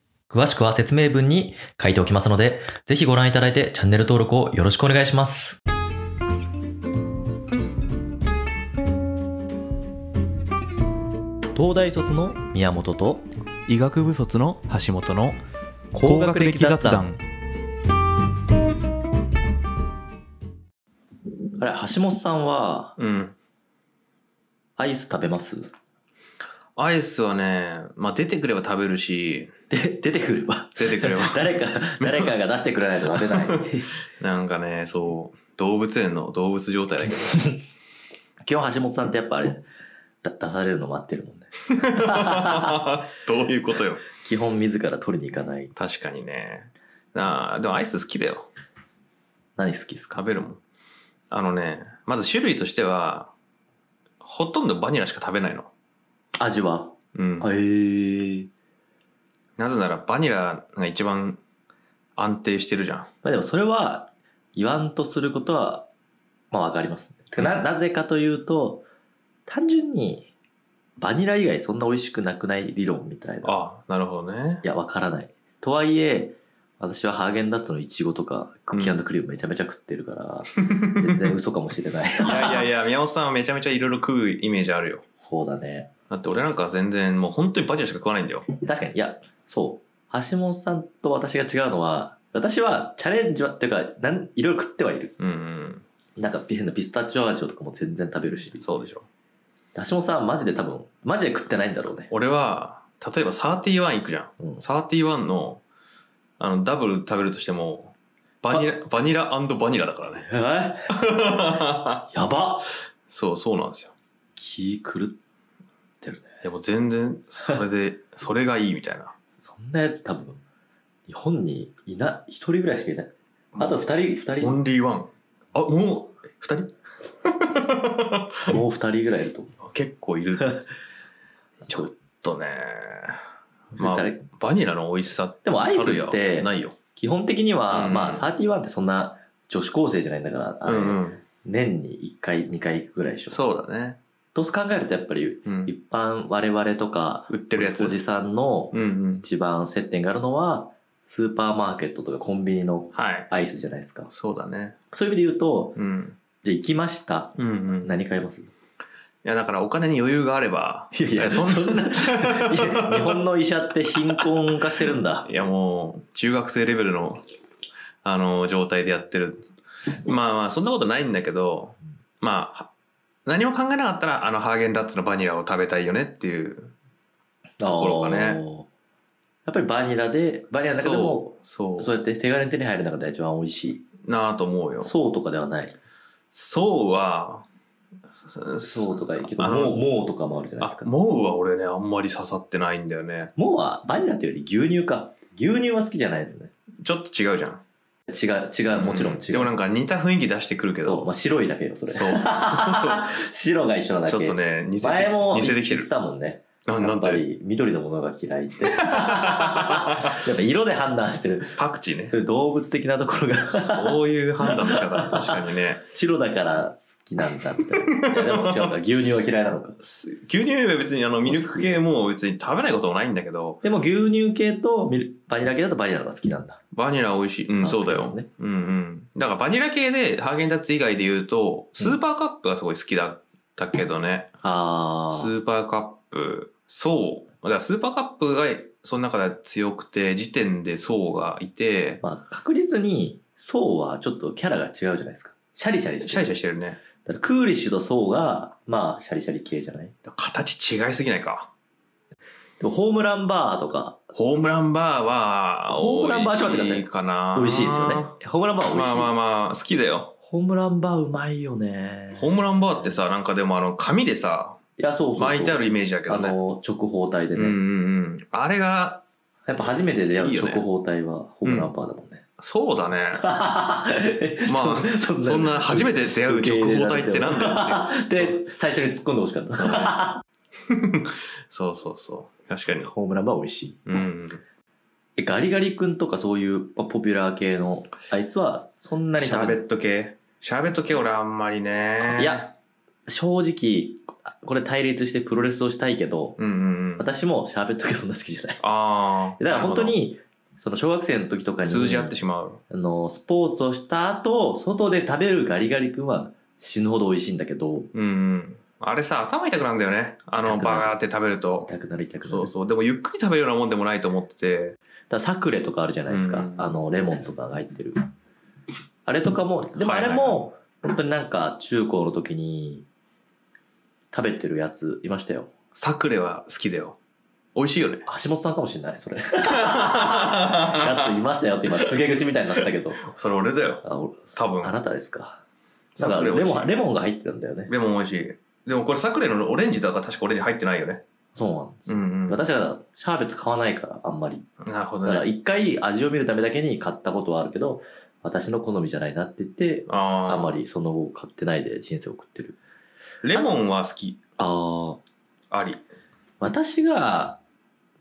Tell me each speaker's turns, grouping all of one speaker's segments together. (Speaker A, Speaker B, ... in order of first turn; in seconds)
Speaker A: 0.3-5.6, 11.5-13.3, 15.9-17.1, 21.6-23.0, 24.8-25.7, 29.7-33.9, 38.4-39.6, 40.2-42.8, 44.1-45.7, 49.6-50.2, 56.4-58.5, 63.2-65.9, 66.5-68.8, 69.5-70.3, 71.0-73.6, 74.6-82.7, 85.2-85.9, 88.6-95.2, 96.2-98.7, 99.8-102.1, 110.2-110.9, 112.1-112.7, 114.4-115.2, 116.0-116.4, 119.4-120.4, 121.1-124.6, 128.5-129.6, 133.7-134.2, 135.4-143.4, 144.3-154.1, 154.9-155.8, 156.4-158.5, 160.9-165.3, 177.6-178.7, 179.5-183.9, 184.8-185.8, 188.7-190.9, 193.4-196.5, 198.1-199.6, 200.8-211.6, 212.1-219.8, 221.2-221.8, 223.6-226.6, 227.6-228.3, 234.4-235.3, 242.0-246.4, 247.0-249.9, 252.6-254.1, 255.7-259.1, 260.3-262.3, 264.8-267.6, 269.5-272.2, 273.2-280.2, 282.9-284.1, 285.2-289.6, 292.0-292.5, 293.1-296.4, 297.0-298.6, 299.4-302.2, 302.7-307.9, 310.4-311.0, 311.7-312.5, 315.1-318.0, 319.1-322.9, 324.1-325.5, 328.1-333.1, 333.8-335.4, 336.0-337.7, 341.4-344.5, 345.1-352.6, 354.4-355.0, 356.4-357.4
Speaker B: 13.7-15.4, 16.0-17.2, 23.0-23.4, 26.8-29.5, 30.8-32.4, 33.1-33.7, 34.2-37.4, 41.8-44.0, 45.8-48.5, 50.1-50.6, 51.3-53.3, 54.2-55.7, 57.1-57.5, 59.6-61.4, 62.2-63.1, 73.4-74.7, 78.7-79.0, 80.6-81.3, 82.2-85.0, 86.1-88.5, 95.2-95.8, 98.6-99.1, 102.1-105.6, 106.4-110.3, 110.9-112.1, 113.1-113.9, 116.4-119.2, 123.5-123.9, 124.4-128.6, 129.6-130.6, 131.7-133.2, 133.8-136.8, 137.7-138.3, 140.7-141.2, 143.3-144.0, 145.4-145.7, 147.3-148.0, 148.7-149.2, 152.9-153.3, 154.1-154.8, 155.8-156.2, 157.4-158.0, 159.2-163.2, 165.2-167.2, 168.0-169.5, 170.0-172.7, 173.3-176.7, 177.6-178.4, 180.6-181.9, 184.0-184.9, 186.3-187.5, 188.2-189.8, 190.6-193.3, 196.8-197.6, 198.7-201.1, 201.9-203.2, 204.1-205.9, 206.7-207.2, 208.7-210.0, 211.6-212.1, 213.5-215.8, 218.0-218.8, 219.8-223.6, 226.7-234.3, 235.1-242.0, 246.0-246.8, 250.1-251.5, 254.1-258.1, 258.7-260.1, 262.1-264.6, 265.2-266.4, 267.4-269.1, 269.6-270.6, 271.4-271.7, 272.4-273.3, 274.4-278.4, 279.5-280.0, 280.7-282.9, 283.9-284.4, 289.2-292.5, 296.4-297.1, 298.6-300.0, 301.6-302.6, 307.9-311.7, 312.2-314.8, 316.1-316.8, 319.8-320.5, 325.8-327.0, 327.6-328.1, 329.5-331.2, 333.0-334.7, 335.9-336.8, 337.7-341.0, 341.9-342.4, 344.6-345.3, 349.9-350.6, 353.2-354.2, 355.5-355.8